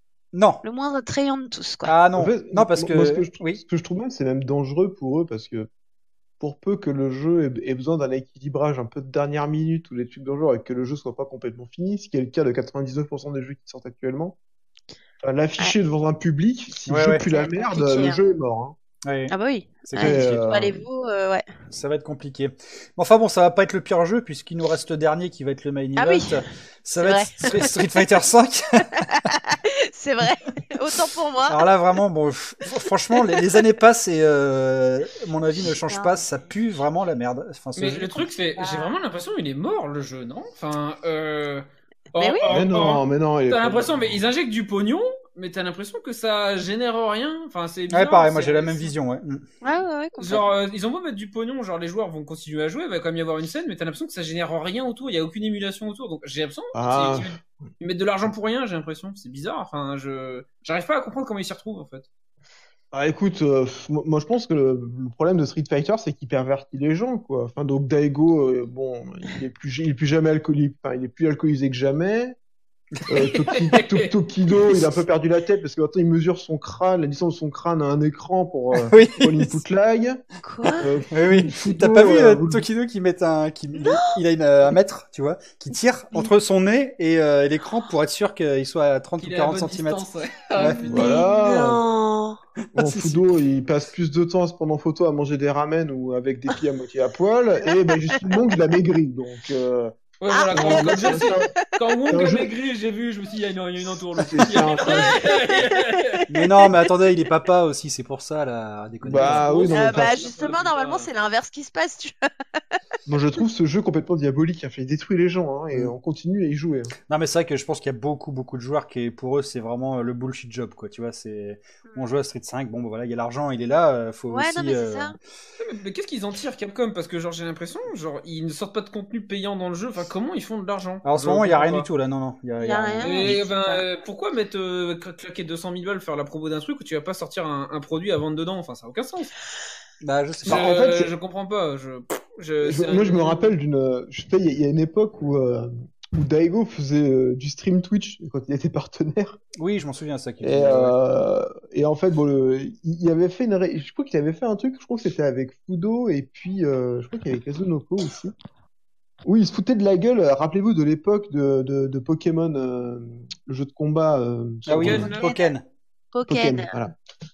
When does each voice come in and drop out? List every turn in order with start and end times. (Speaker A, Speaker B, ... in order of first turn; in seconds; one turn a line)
Speaker A: 0.3-0.6
Speaker B: 0.6-1.9
Speaker A: 1.9-3.6
Speaker C: 2.2-5.7
Speaker C: 6.4-14.4
Speaker C: 15.2-18.7
Speaker A: 16.9-17.2
Speaker B: 17.3-18.2
Speaker A: 19.1-20.5
Speaker B: 19.3-21.4
Speaker C: 20.0-20.8
Speaker A: 21.7-29.3
Speaker B: 26.0-26.4
Speaker B: 27.0-27.7
Speaker B: 28.9-31.6
Speaker A: 31.5-38.3
Speaker B: 35.6-36.2
Speaker D: 37.8-48.9
Speaker B: 38.6-39.0
Speaker B: 42.2-42.5
Speaker C: 42.5-44.2
Speaker A: 47.9-49.4
Speaker B: 49.6-50.4
Speaker D: 50.2-62.1
Speaker C: 56.7-57.3
Speaker C: 62.9-72.4
Speaker C: 73.1-80.2
Speaker D: 73.5-74.1
Speaker A: 78.7-79.6
Speaker B: 80.4-80.9
Speaker C: 80.8-82.6
Speaker A: 81.1-90.0
Speaker B: 83.8-84.1
Speaker D: 89.2-91.2
Speaker A: 90.6-90.8
Speaker B: 90.6-92.4
Speaker C: 90.9-91.8
Speaker A: 92.7-93.3
Speaker C: 92.8-99.9
Speaker D: 100.2-106.2
Speaker B: 100.3-101.6
Speaker C: 100.5-101.5
Speaker C: 102.1-102.5
Speaker C: 104.2-105.2
Speaker B: 104.8-106.7
Speaker A: 106.3-109.5
Speaker C: 109.0-110.3
Speaker D: 109.2-111.1
Speaker B: 109.7-112.2
Speaker C: 113.1-116.9
Speaker A: 117.1-125.2
Speaker B: 124.3-125.2
Speaker D: 125.6-131.9
Speaker A: 131.1-133.4
Speaker B: 132.6-133.8
Speaker D: 133.0-139.3
Speaker A: 140.0-140.7
Speaker C: 140.4-141.1
Speaker D: 140.4-143.5
Speaker C: 142.6-149.4
Speaker A: 149.6-150.9
Speaker C: 150.4-158.3
Speaker C: 159.2-165.1
Speaker A: 164.7-165.7
Speaker D: 164.7-165.4
Speaker B: 165.1-165.5
Speaker B: 166.1-166.7
Speaker C: 166.3-166.9